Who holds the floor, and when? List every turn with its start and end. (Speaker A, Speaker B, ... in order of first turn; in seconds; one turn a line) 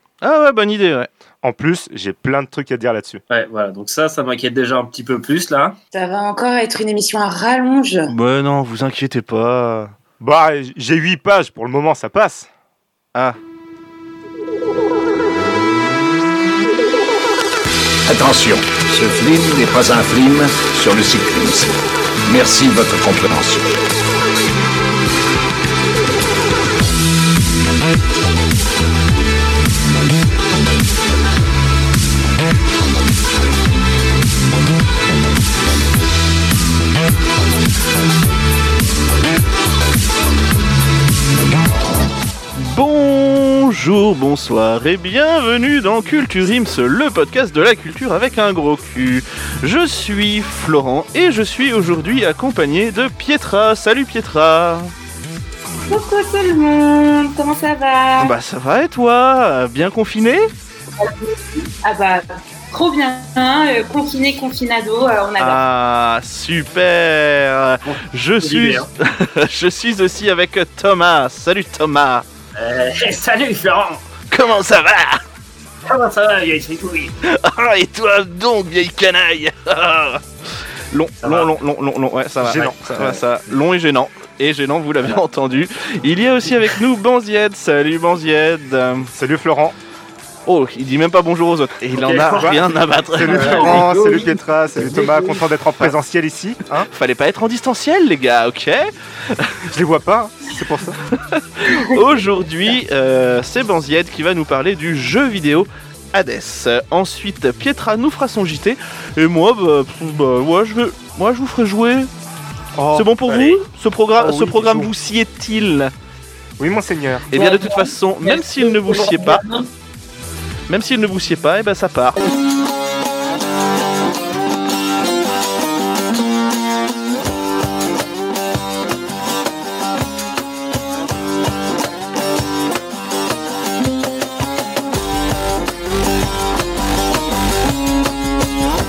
Speaker A: 0.2-1.1
Speaker B: 1.4-3.2
Speaker C: 3.3-5.8
Speaker D: 5.9-8.1
Speaker A: 8.1-9.9
Speaker B: 10.2-12.5
Speaker E: 18.1-21.7
Speaker E: 22.2-23.7
Speaker A: 42.5-54.9
Speaker D: 55.8-58.3
Speaker A: 58.2-60.5
Speaker D: 61.0-65.6
Speaker A: 65.4-72.2
Speaker C: 67.8-68.9
Speaker C: 72.5-74.0
Speaker A: 74.3-75.2
Speaker C: 75.8-77.1
Speaker A: 77.2-80.2
Speaker A: 80.9-89.1
Speaker C: 81.2-81.5
Speaker B: 82.4-82.8
Speaker B: 89.1-89.8
Speaker A: 90.5-93.9
Speaker C: 91.9-92.6
Speaker B: 92.3-92.6
Speaker B: 93.1-96.9
Speaker C: 93.2-95.4
Speaker A: 96.9-99.6
Speaker B: 99.7-101.0
Speaker A: 101.1-112.1
Speaker D: 101.7-102.0
Speaker B: 112.8-113.1
Speaker A: 112.9-115.9
Speaker C: 113.3-113.6
Speaker B: 114.2-114.9
Speaker B: 116.6-117.3
Speaker A: 117.3-119.4
Speaker D: 117.3-119.7
Speaker A: 120.7-122.2